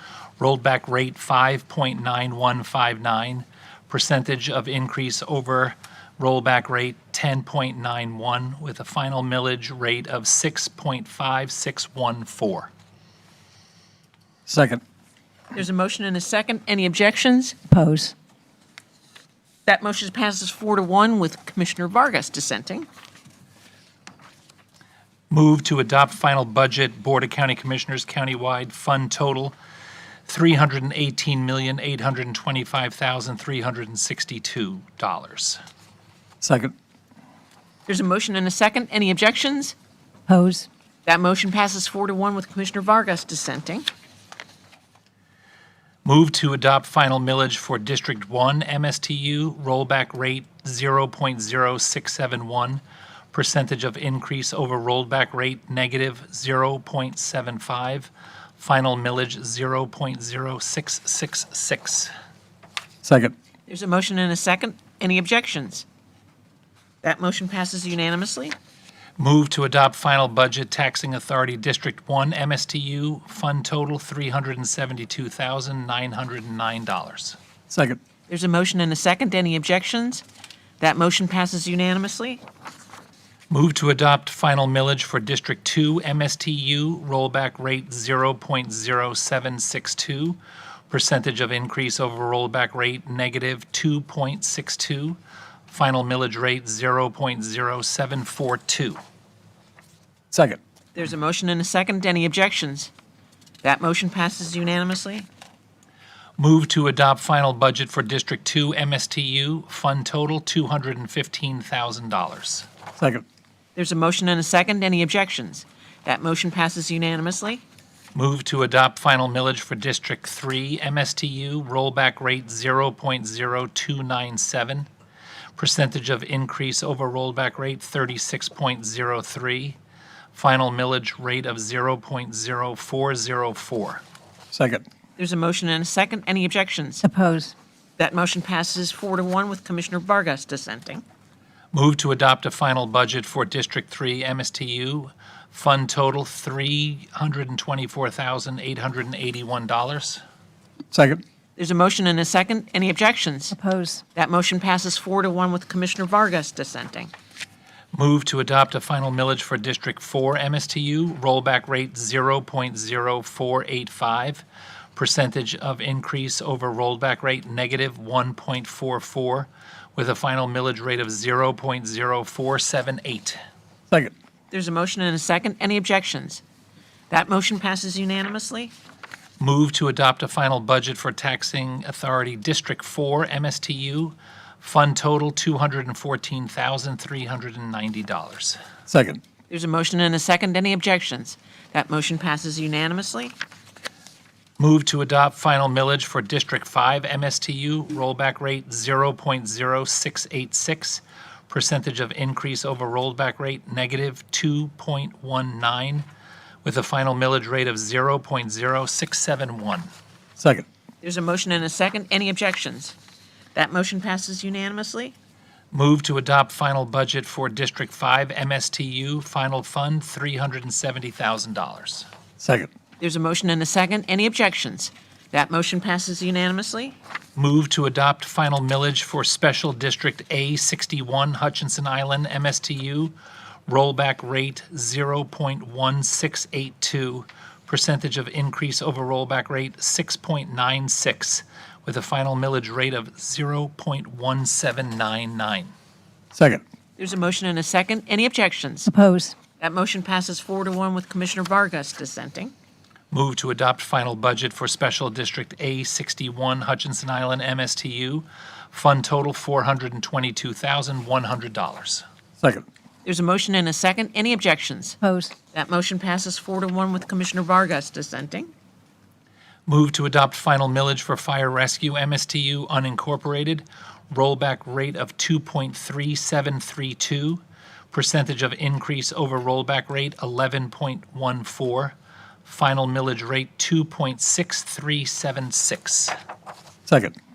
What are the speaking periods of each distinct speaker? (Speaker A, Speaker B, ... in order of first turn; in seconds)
Speaker A: 0.4-12.7, 25.3-29.5, 30.3-35.6, 46.0-52.8, 53.3-62.1, 69.2-77.4, 83.5-90.4, 90.9-99.0, 106.4-112.7, 118.1-124.9, 125.6-129.8, 130.3-134.0, 141.7-150.2, 157.9-164.4, 164.9-173.4, 179.4-188.6, 194.6-206.1, 206.6-209.9, 215.7-222.1, 227.3-233.1, 233.7-245.7, 253.1-262.0, 269.7-281.9, 282.4-286.1
Speaker B: 14.5-14.8, 36.4-36.7, 63.0-63.3, 77.7-78.0, 100.3-100.6, 113.0-113.2, 134.5-134.8, 150.9-151.2, 188.9-189.2, 210.4-210.7, 222.4-222.7, 246.3-246.6, 262.4-262.6, 286.9-287.1
Speaker C: 15.5-17.6, 19.6-22.9, 37.9-39.7, 41.0-43.9, 63.7-65.8, 67.0-68.5, 78.3-80.2, 80.8-82.4, 100.9-102.9, 103.6-105.3, 113.8-117.6, 135.2-137.0, 138.0-141.0, 151.6-153.6, 154.1-157.1, 174.5-176.4, 177.1-178.7, 189.5-193.4, 211.0-212.9, 213.5-215.1, 223.0-227.0, 247.0-248.9, 249.6-252.5, 263.0-265.0, 265.5-268.5
Speaker D: 17.7-18.1, 40.3-40.7, 137.0-137.5, 153.5-154.0, 248.9-249.3, 265.0-265.3